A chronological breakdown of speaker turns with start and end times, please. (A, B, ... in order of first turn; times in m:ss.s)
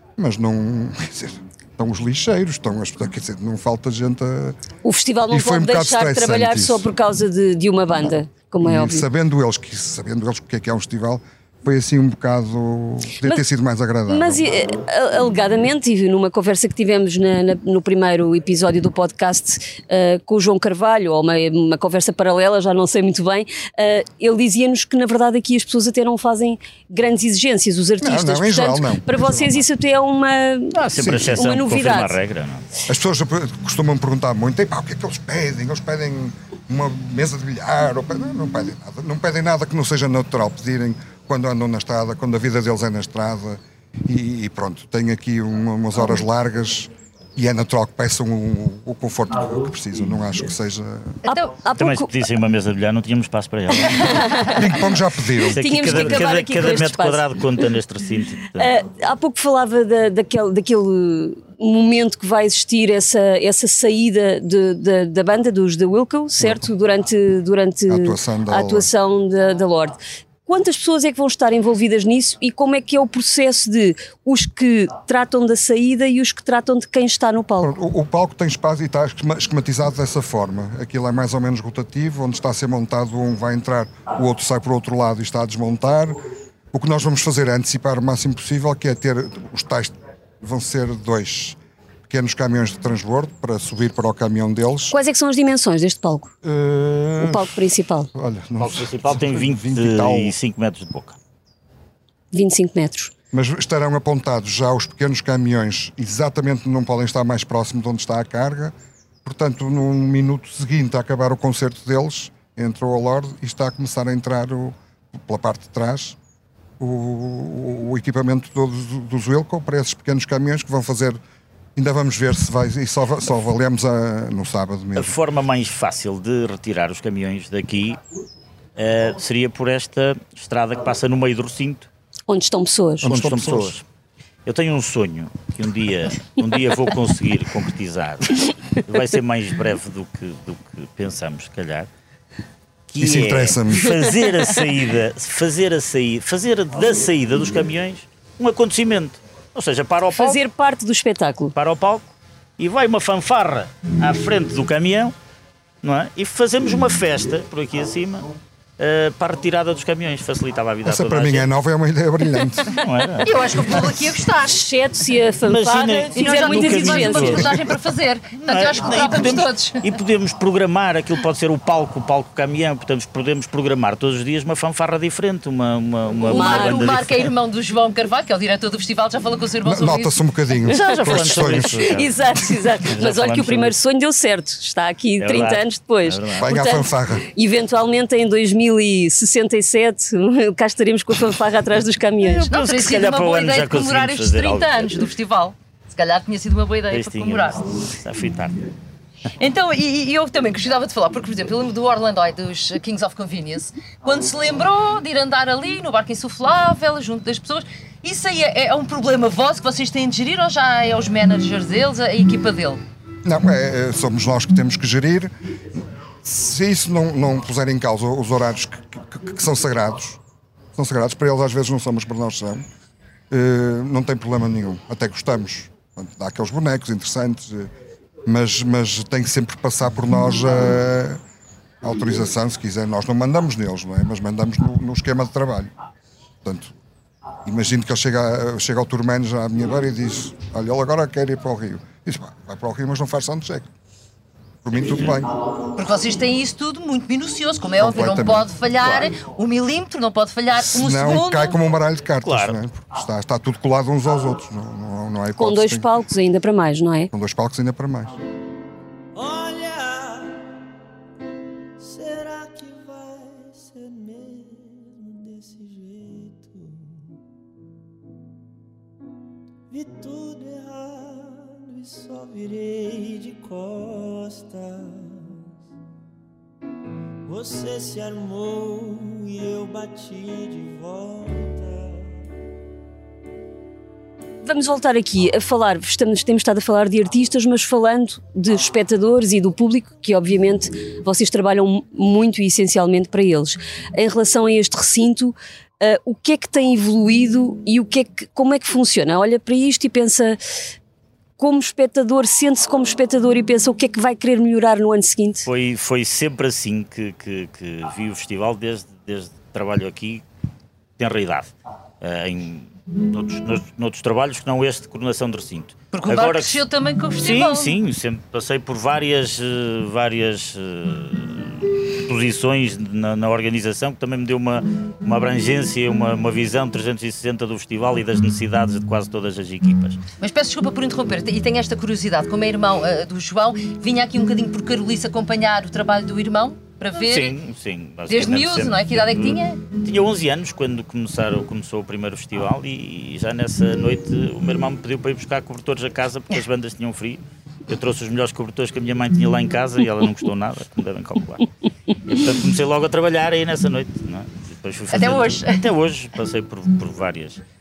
0:00.2-0:04.6 A
0:04.8-0:09.1 B
0:05.3-0:06.9 A
0:08.6-0:14.5 A
0:14.1-0:32.1 B
0:28.0-0:29.6 A
0:30.7-0:32.6 C
0:31.0-0:31.4 A
0:32.9-0:51.2 A
0:51.2-0:52.1 B
0:51.8-0:54.5 C
0:54.0-0:54.7 B
0:54.5-0:56.3 A
0:55.5-0:57.2 B
0:55.6-0:58.7 C
0:58.6-1:17.8 B
1:06.4-1:06.7 A
1:07.9-1:08.9 A
1:17.6-1:26.2 A
1:26.7-1:35.0 A
1:34.9-1:36.3 B
1:36.4-1:40.3 A
1:37.2-1:38.1 B
1:38.6-1:41.2 C
1:42.3-1:43.1 B
1:43.3-1:56.2 A
1:56.8-2:01.2 A
2:01.8-2:05.2 A
2:05.0-2:08.0 C
2:08.8-2:11.9 C
2:12.3-2:13.1 B
2:13.0-2:13.8 A
2:13.0-2:13.8 C
2:14.5-2:21.9 C
2:22.9-2:30.4 C
2:23.0-2:24.0 A
2:30.2-2:31.5 B
2:31.6-2:32.1 C
2:32.6-2:35.1 C
2:35.8-2:41.5 C
2:40.8-2:42.8 A
2:42.7-2:43.3 C
2:43.2-2:44.6 D
2:44.5-2:47.5 B
2:45.5-2:47.6 C
2:46.1-2:49.8 D
2:48.4-2:57.3 C
2:56.2-3:00.1 D
2:56.3-2:57.0 B
2:59.6-3:02.0 A
3:00.6-3:03.7 C
3:00.7-3:12.5 B
3:05.2-3:06.5 C
3:06.4-3:07.2 A
3:12.2-3:15.0 C
3:12.5-3:17.6 D
3:16.9-3:18.6 C
3:19.4-3:32.8 D
3:33.2-3:35.3 A
3:36.2-3:40.2 A
3:40.8-3:42.6 A
3:43.3-3:47.7 A
3:48.3-3:51.2 A
3:51.8-3:55.7 A
3:56.4-3:56.7 A
3:57.4-4:03.7 A
4:04.6-4:05.3 A
4:05.8-4:11.6 D
4:07.8-4:08.5 A
4:08.8-4:09.1 C
4:10.7-4:15.9 A
4:12.2-4:12.6 C
4:15.4-4:17.1 B
4:17.1-4:18.2 A
4:19.2-4:20.0 C
4:19.2-4:20.3 E
4:21.8-4:24.3 C
4:22.0-4:26.9 E
4:25.1-4:26.4 C
4:29.7-4:31.1 C
4:29.7-4:35.2 E
4:31.7-4:33.1 C
4:34.1-4:34.7 C
4:37.3-4:41.6 C
4:37.3-4:42.0 E
4:44.4-5:00.4 B
5:01.4-5:05.5 B
5:05.5-5:10.2 C
5:11.0-5:16.6 C
5:15.9-5:17.8 D
5:17.2-5:30.0 C
5:30.2-5:37.4 D
5:37.0-5:51.5 C
5:38.1-5:39.6 D
5:52.1-5:57.4 C
5:54.9-5:55.6 D